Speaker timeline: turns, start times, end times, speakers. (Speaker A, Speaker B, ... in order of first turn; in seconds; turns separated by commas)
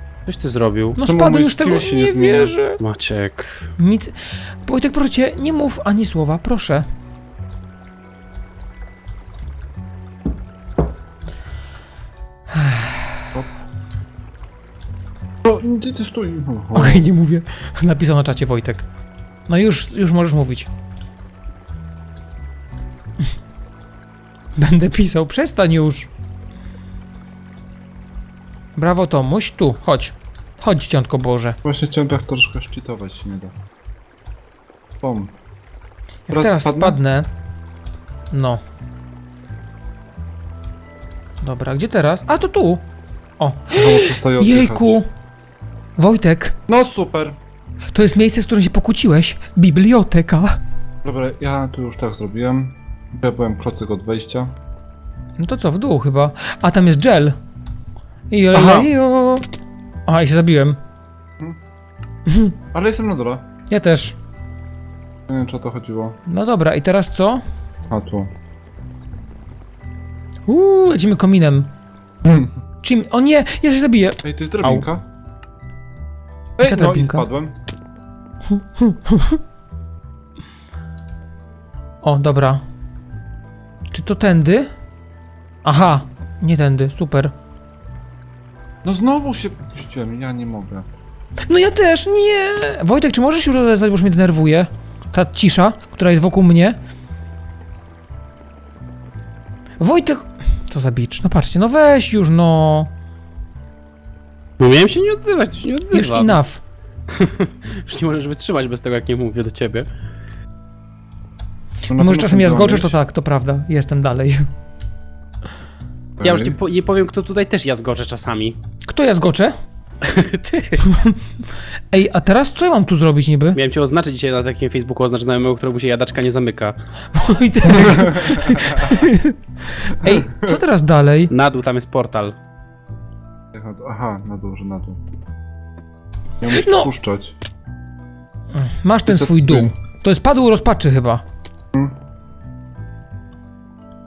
Speaker A: 0.2-1.0, Speaker B: 0.9-2.8, Speaker C: 1.0-2.5, Speaker A: 2.8-3.7, Speaker B: 3.8-6.8, Speaker B: 12.5-13.3, Speaker C: 15.4-17.0, Speaker B: 16.7-18.8, Speaker B: 19.5-20.7, Speaker B: 24.6-26.1, Speaker B: 28.8-31.6, Speaker C: 31.6-33.5, Speaker C: 35.0-35.3, Speaker B: 36.3-37.3, Speaker C: 36.3-37.0, Speaker B: 38.3-38.6, Speaker B: 41.4-42.8, Speaker B: 43.4-45.1, Speaker C: 43.7-45.0, Speaker B: 46.0-46.5, Speaker C: 46.7-47.4, Speaker B: 47.9-50.6, Speaker C: 51.0-54.5, Speaker B: 55.4-57.4, Speaker B: 58.3-59.4, Speaker C: 58.5-58.9, Speaker B: 60.1-60.8, Speaker B: 62.3-62.5, Speaker C: 62.7-63.4, Speaker B: 63.7-64.2, Speaker C: 65.3-66.2, Speaker B: 66.2-67.4, Speaker C: 67.9-68.3, Speaker B: 70.5-71.7, Speaker C: 72.2-72.5, Speaker B: 72.8-74.8, Speaker C: 74.2-75.0, Speaker C: 76.6-77.5, Speaker B: 76.6-77.3, Speaker B: 78.5-79.4, Speaker B: 82.0-82.6, Speaker B: 83.9-84.7, Speaker B: 85.6-87.3, Speaker C: 88.8-90.9, Speaker B: 91.5-96.8, Speaker B: 99.8-102.9, Speaker A: 104.6-106.4, Speaker B: 105.9-106.6, Speaker A: 107.1-109.9, Speaker C: 111.9-113.0, Speaker B: 111.9-114.5, Speaker C: 116.2-116.5, Speaker A: 116.2-118.6, Speaker B: 118.8-119.5, Speaker A: 120.0-120.8, Speaker B: 120.8-121.2, Speaker B: 121.9-123.6, Speaker A: 123.5-126.8, Speaker B: 127.1-131.3, Speaker C: 127.7-129.1, Speaker C: 130.1-130.5, Speaker A: 131.3-132.3, Speaker C: 133.5-135.0, Speaker C: 136.4-137.3, Speaker B: 136.5-136.9, Speaker B: 138.5-141.2, Speaker C: 139.1-139.7